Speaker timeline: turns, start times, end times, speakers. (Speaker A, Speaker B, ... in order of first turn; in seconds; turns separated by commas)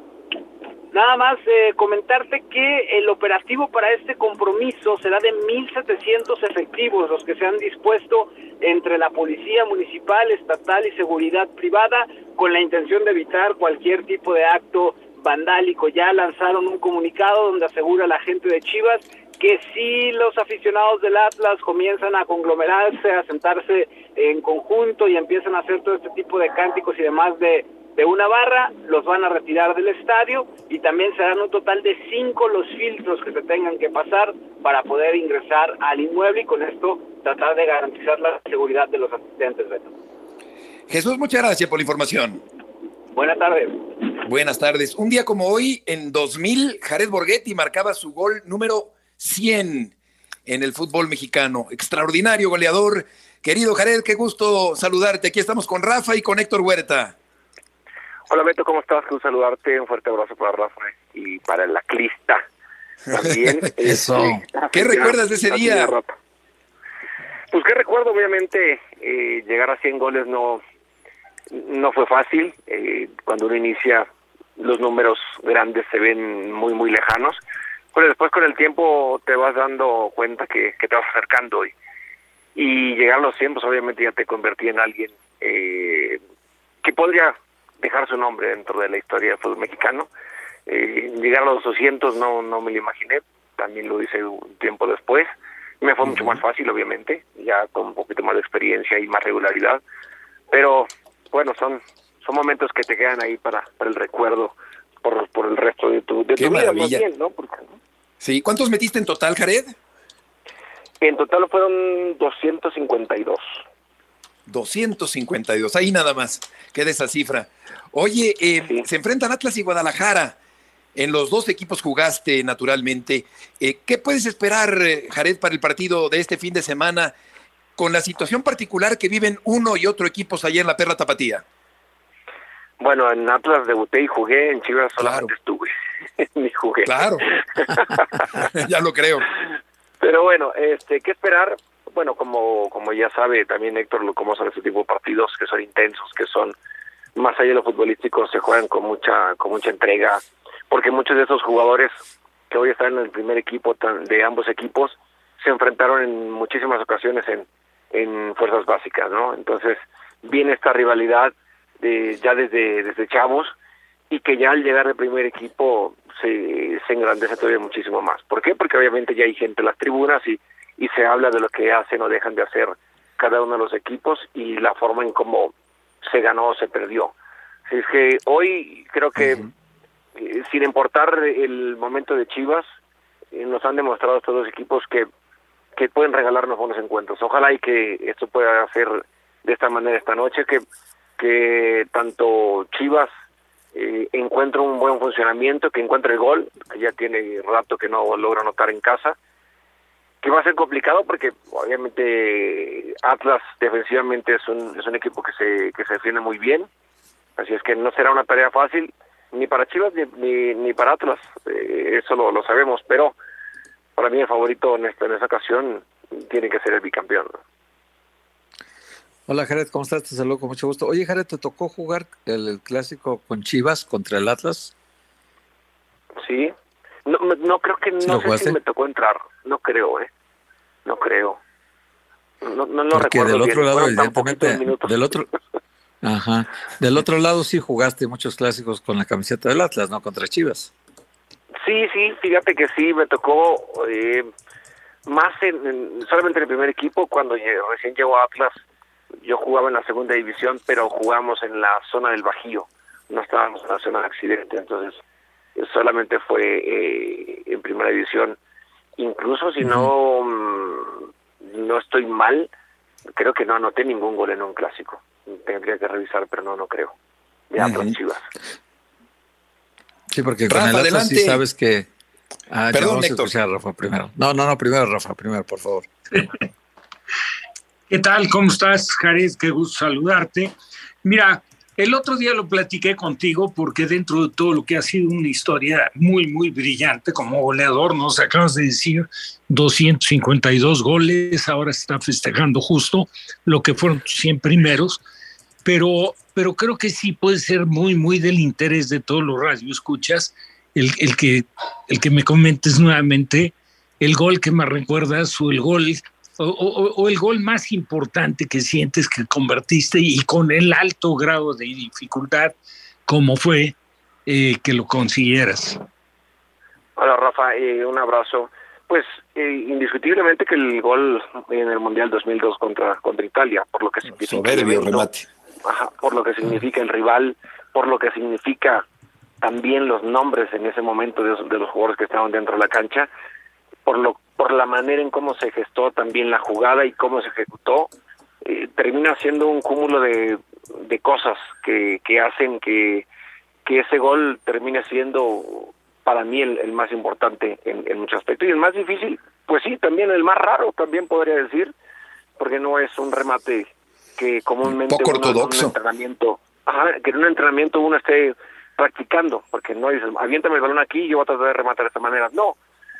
Speaker A: 0.9-39.9, Speaker B: 40.9-42.4, Speaker A: 43.1-43.8, Speaker B: 44.2-49.9, Speaker B: 50.5-57.1, Speaker C: 58.3-62.4, Speaker B: 63.1-63.5, Speaker C: 63.1-66.2, Speaker D: 63.8-64.4, Speaker B: 64.7-65.9, Speaker C: 67.5-70.6, Speaker C: 71.5-77.4, Speaker C: 77.9-81.7, Speaker C: 82.5-86.2, Speaker C: 86.8-90.1, Speaker C: 90.7-99.8, Speaker C: 100.5-107.8, Speaker B: 106.4-107.0, Speaker B: 108.2-109.7, Speaker C: 111.0-113.6, Speaker B: 114.5-120.3, Speaker B: 120.9-127.1, Speaker B: 127.8-131.4, Speaker C: 132.8-138.1, Speaker B: 135.0-135.3, Speaker B: 136.8-137.2, Speaker B: 138.4-139.3, Speaker C: 140.0-146.6, Speaker C: 147.1-152.0, Speaker C: 152.5-163.5, Speaker C: 164.1-177.1, Speaker C: 177.7-179.4, Speaker C: 180.2-182.7, Speaker C: 183.3-185.1, Speaker C: 185.8-190.6, Speaker C: 191.2-193.1, Speaker C: 193.7-199.2, Speaker C: 200.2-206.7, Speaker C: 207.4-213.1, Speaker C: 213.9-217.4, Speaker D: 219.3-224.7, Speaker C: 226.2-226.5, Speaker C: 227.1-230.1, Speaker D: 228.0-228.6, Speaker C: 230.8-231.4, Speaker C: 232.4-235.2, Speaker D: 232.9-235.3, Speaker D: 236.0-240.7, Speaker C: 241.6-244.3, Speaker C: 245.1-248.6, Speaker C: 249.2-255.0, Speaker C: 255.6-258.4, Speaker C: 259.0-262.5, Speaker C: 263.1-266.9, Speaker C: 267.5-268.3, Speaker B: 267.6-267.9, Speaker D: 270.1-271.9, Speaker B: 270.5-271.4, Speaker D: 272.5-275.9, Speaker B: 272.7-273.3, Speaker E: 277.9-280.5, Speaker E: 281.0-295.0, Speaker E: 295.6-312.5, Speaker E: 313.1-313.8, Speaker E: 314.3-315.8, Speaker C: 316.9-325.1, Speaker B: 324.2-325.2, Speaker C: 325.6-328.8, Speaker C: 329.4-333.1, Speaker C: 333.9-337.9, Speaker C: 338.4-343.1, Speaker C: 343.6-351.7, Speaker C: 352.4-362.6, Speaker B: 354.6-355.7